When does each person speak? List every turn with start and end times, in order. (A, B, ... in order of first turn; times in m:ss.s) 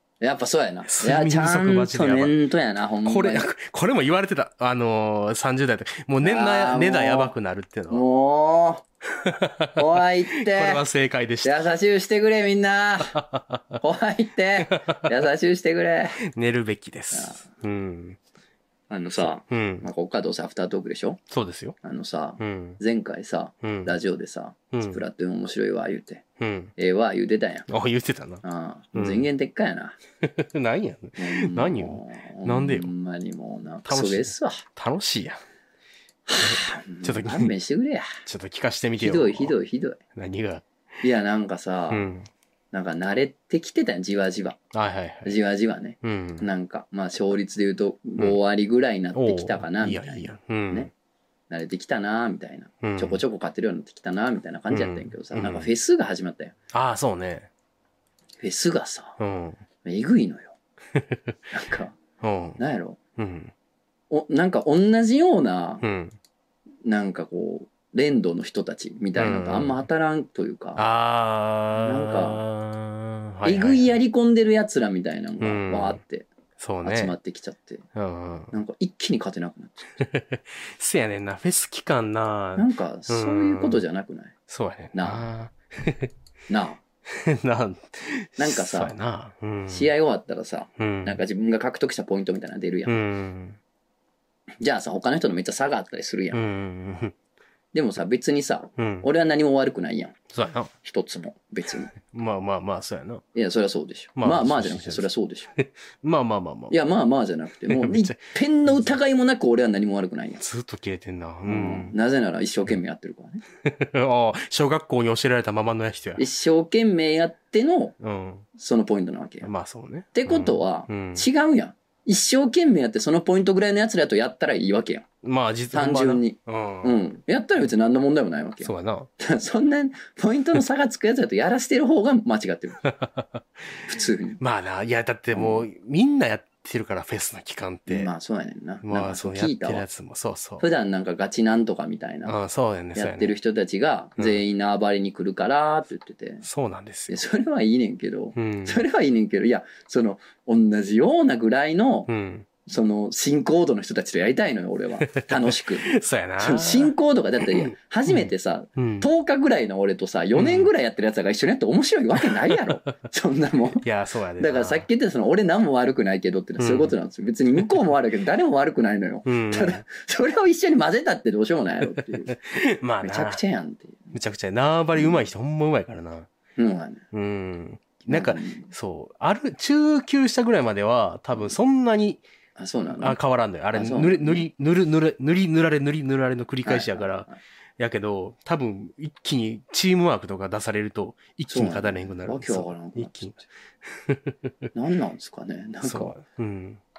0:00.2-0:03.5 A
0:00.9-0:02.4 B
0:03.0-0:08.0 B
0:06.2-0:07.3 A
0:07.9-0:08.8 A
0:09.2-0:09.8 B
0:09.8-0:10.8 A
0:10.5-0:11.6 B
0:11.4-0:13.1 A
0:13.1-0:13.8 B
0:13.8-0:16.2 A
0:14.6-0:15.1 B
0:16.3-0:18.2 B
0:17.1-0:17.5 A
0:18.9-0:21.2 A
0:19.5-0:19.8 B
0:21.3-0:21.8 B
0:21.8-0:26.2 A
0:22.4-0:22.8 B
0:23.6-0:24.0 B
0:24.7-0:25.0 B
0:26.4-0:26.7 B
0:26.8-0:27.7 A
0:27.7-0:28.4 B
0:28.4-0:30.0 A
0:28.9-0:29.3 B
0:30.2-0:32.9 B
0:31.2-0:34.6 A
0:33.9-0:35.4 B
0:36.3-0:38.1 A
0:36.4-0:37.5 B
0:38.3-0:39.6 B
0:39.0-0:40.0 A
0:40.2-0:40.7 B
0:41.0-0:42.2 A
0:41.9-0:42.3 B
0:42.7-0:44.6 A
0:44.7-0:45.4 B
0:45.2-0:50.9 A
0:46.0-0:46.5 B
0:49.2-0:50.9 B
0:51.5-0:56.5 A
0:52.8-0:53.2 B
0:54.7-0:55.7 B
0:56.7-0:57.5 B
0:58.4-0:59.2 A
0:59.2-0:59.6 B
0:59.8-1:00.6 A
1:01.5-1:02.0 A
1:02.2-1:02.6 B
1:02.6-1:03.0 A
1:03.2-1:03.5 B
1:04.1-1:05.8 A
1:05.8-1:06.2 B
1:06.8-1:10.9 A
1:09.2-1:09.8 B
1:10.8-1:13.9 B
1:11.8-1:12.4 A
1:13.4-1:16.3 A
1:15.4-1:16.0 B
1:16.6-1:17.1 B
1:16.8-1:17.8 A
1:18.0-1:18.5 B
1:18.5-1:20.0 A
1:20.0-1:23.8 B
1:22.6-1:24.4 A
1:24.5-1:26.1 B
1:24.9-1:25.3 A
1:26.5-1:26.8 A
1:27.1-1:29.9 B
1:28.4-1:29.0 A
1:29.7-1:33.0 A
1:30.8-1:31.2 B
1:32.9-1:33.6 B
1:34.6-1:36.4 A
1:36.3-1:37.1 B
1:37.7-1:40.2 A
1:38.8-1:39.1 B
1:40.3-1:40.7 B
1:40.8-1:41.9 A
1:42.0-1:43.2 B
1:43.4-1:45.5 A
1:44.2-1:45.1 B
1:45.6-1:46.8 B
1:46.7-1:50.4 A
1:47.7-1:48.2 B
1:50.4-1:52.0 B
1:51.5-1:53.4 A
1:53.6-1:56.2 B
1:56.2-1:58.0 A
1:58.0-1:58.5 B
1:58.6-1:59.5 A
1:59.4-2:01.3 B
2:00.1-2:05.0 A
2:05.2-2:07.0 B
2:05.7-2:12.8 A
2:08.6-2:09.1 B
2:12.8-2:13.4 B
2:13.9-2:14.4 A
2:14.4-2:18.1 B
2:15.3-2:15.7 A
2:17.9-2:19.8 A
2:18.8-2:20.7 B
2:20.6-2:22.4 A
2:22.3-2:23.3 B
2:23.0-2:26.5 A
2:24.2-2:24.4 B
2:26.4-2:27.2 B
2:27.1-2:32.1 A
2:28.4-2:28.8 B
2:32.1-2:32.5 B
2:32.7-2:43.9 A
2:35.0-2:39.1 B
2:40.4-2:40.7 B
2:42.2-2:42.8 B
2:43.8-2:44.9 B
2:44.4-2:54.2 A
2:46.6-2:47.0 B
2:49.3-2:49.8 B
2:52.3-2:53.4 B
2:54.1-2:56.3 B
2:54.9-2:55.2 A
2:56.6-2:57.0 A
2:57.1-3:02.2 B
2:58.1-2:58.7 A
3:02.6-3:03.2 A
3:03.0-3:07.3 B
3:03.7-3:04.5 A
3:06.6-3:07.4 A
3:07.8-3:14.5 B
3:11.5-3:13.5 A
3:14.8-3:16.2 A
3:15.8-3:16.8 B